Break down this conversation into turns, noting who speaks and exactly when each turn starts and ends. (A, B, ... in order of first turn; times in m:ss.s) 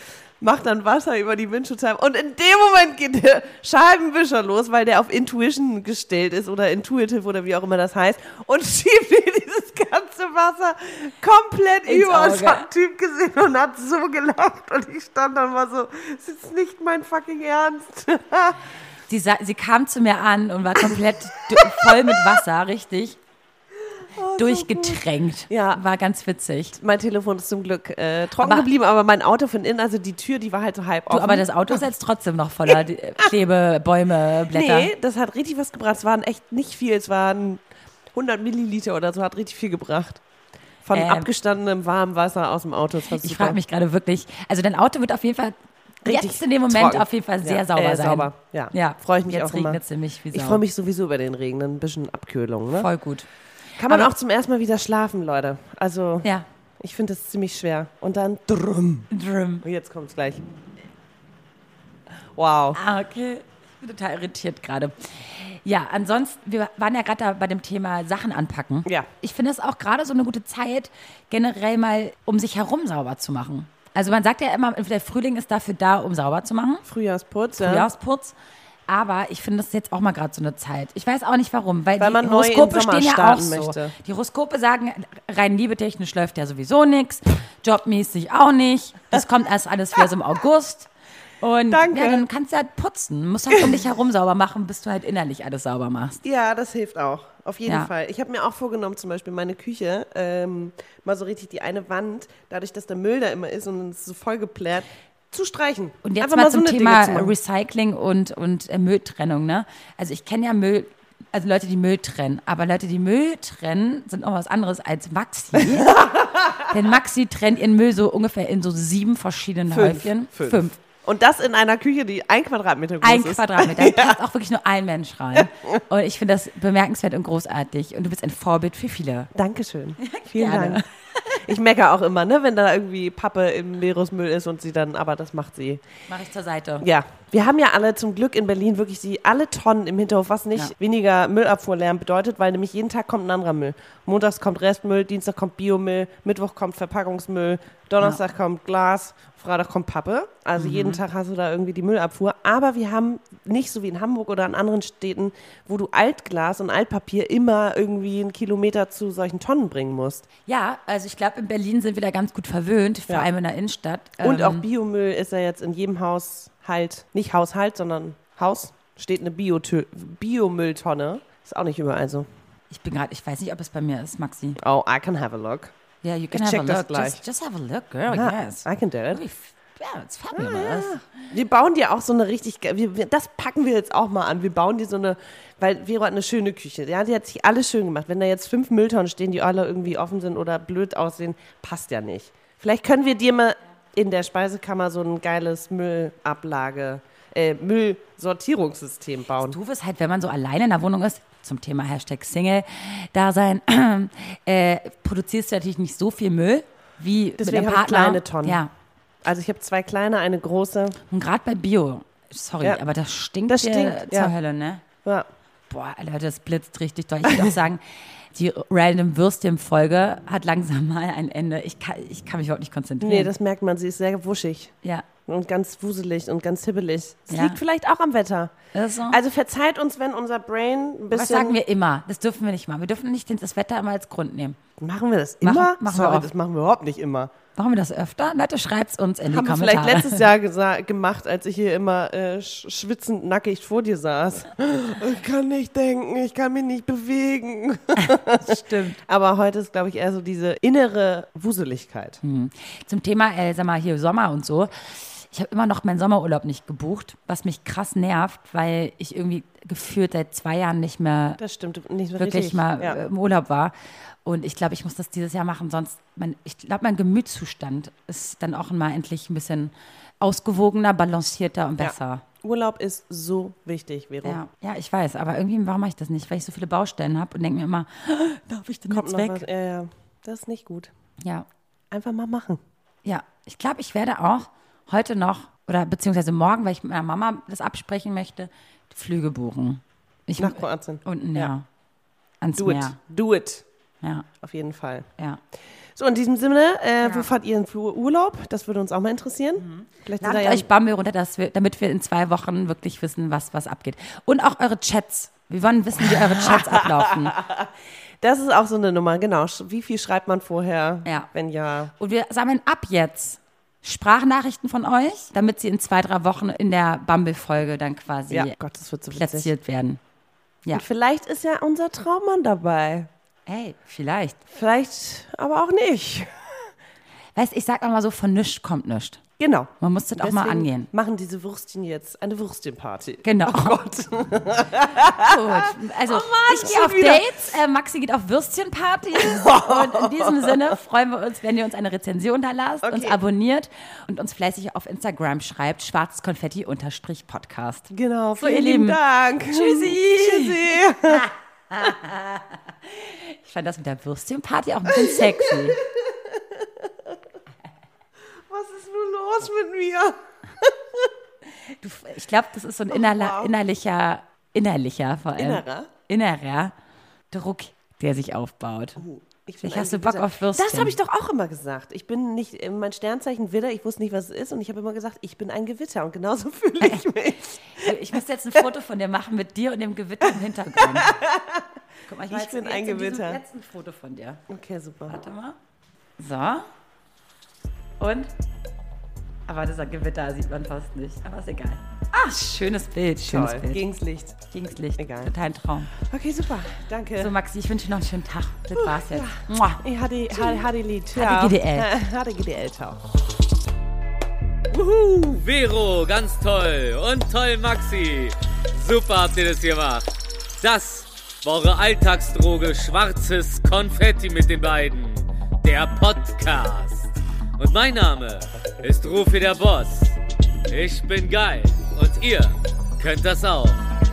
0:00.4-0:18.6 A
0:11.9-0:12.7 B
0:19.1-0:23.2 B
0:21.4-0:22.2 A
0:24.2-0:25.8 A
0:24.4-0:26.8 B
0:26.8-0:31.8 A
0:28.4-0:28.7 B
0:31.1-0:34.9 B
0:34.5-0:37.6 A
0:38.1-0:40.2 A
0:40.8-0:43.6 A
0:40.9-0:41.3 B
0:43.1-0:50.6 B
0:46.0-0:49.8 A
0:50.3-0:52.9 A
0:52.7-0:53.3 B
0:53.8-0:59.1 A
0:59.1-0:59.6 B
0:59.6-1:00.4 A
1:02.4-1:02.8 A
1:02.7-1:16.8 B
1:16.8-1:17.9 A
1:17.6-1:18.3 B
1:18.9-1:30.9 B
1:22.0-1:23.9 A
1:31.4-1:36.2 B
1:31.7-1:32.2 A
1:36.2-1:47.3 A
1:46.0-1:56.0 B
1:55.6-1:56.7 A
1:56.6-2:00.8 B
1:59.7-2:04.2 A
2:03.0-2:09.3 B
2:09.4-2:10.8 A
2:10.0-2:11.4 B
2:11.4-2:15.8 A
2:16.1-2:16.9 B
2:16.8-2:40.3 A
2:30.6-2:31.0 B
2:40.5-2:44.6 B
2:44.2-2:52.3 A
2:52.7-2:54.6 B
2:54.6-2:55.7 A
2:56.0-3:01.0 B
2:56.3-2:57.2 A
2:58.1-2:59.2 A
3:00.3-3:19.6 A
3:19.4-3:28.7 B
3:27.4-3:28.6 A
3:29.2-3:31.0 A
3:31.1-3:34.8 B
3:33.5-3:34.3 A
3:35.7-3:43.3 B
3:43.0-3:44.8 A
3:45.3-3:48.6 A
3:47.3-3:47.6 B
3:48.7-3:49.2 B
3:49.1-3:51.6 A
3:51.1-3:54.6 B
3:54.8-3:57.3 A
3:55.4-3:56.3 B
3:57.6-4:00.3 B
3:59.3-4:12.2 A
4:08.0-4:09.0 B
4:12.2-4:21.4 B
4:21.4-4:23.0 A
4:22.2-4:32.2 B
4:31.8-4:34.4 A
4:34.2-4:39.4 B
4:38.9-4:40.9 A
4:41.2-4:41.5 B
4:41.9-4:42.6 A
4:43.0-4:51.7 B
4:50.4-4:51.5 A
4:52.4-4:53.0 B
4:52.6-4:53.6 A
4:54.0-4:54.3 B
4:54.4-4:55.1 A
4:56.0-5:00.7 A
4:57.0-4:57.3 B
4:59.6-5:07.4 B
5:06.0-5:07.7 A
5:08.2-5:11.9 A
5:11.0-5:11.3 B
5:12.0-5:18.6 B
5:18.3-5:19.5 A
5:19.1-5:20.0 B
5:20.7-5:23.1 A
5:23.5-5:24.5 B
5:24.5-5:26.5 A
5:27.4-5:29.2 B
5:29.4-5:37.4 A
5:29.8-5:30.9 B
5:33.2-5:33.8 B
5:35.0-5:55.8 B
5:39.2-5:40.7 A
5:42.8-5:43.2 A
5:47.9-5:51.3 A
5:54.9-5:57.2 A
5:58.5-6:01.1 A
6:01.6-6:06.7 B
6:02.9-6:03.5 A
6:05.4-6:05.9 A
6:07.3-6:09.0 B
6:09.0-6:17.9 A
6:09.6-6:11.0 B
6:16.8-6:17.1 B
6:17.7-6:21.2 B
6:20.8-6:21.7 A
6:22.1-6:24.4 B
6:22.3-6:23.4 A
6:24.5-6:25.2 A
6:25.1-6:25.6 B
6:26.2-6:26.7 B
6:28.0-6:28.3 B
6:29.5-6:33.8 B
6:33.2-6:34.4 A
6:34.5-6:35.9 B
6:35.0-6:35.3 A
6:36.0-6:37.3 A
6:37.2-6:41.9 B
6:38.8-6:43.0 A
6:44.7-6:50.1 C
6:50.6-7:00.2 C
7:00.7-7:03.8 C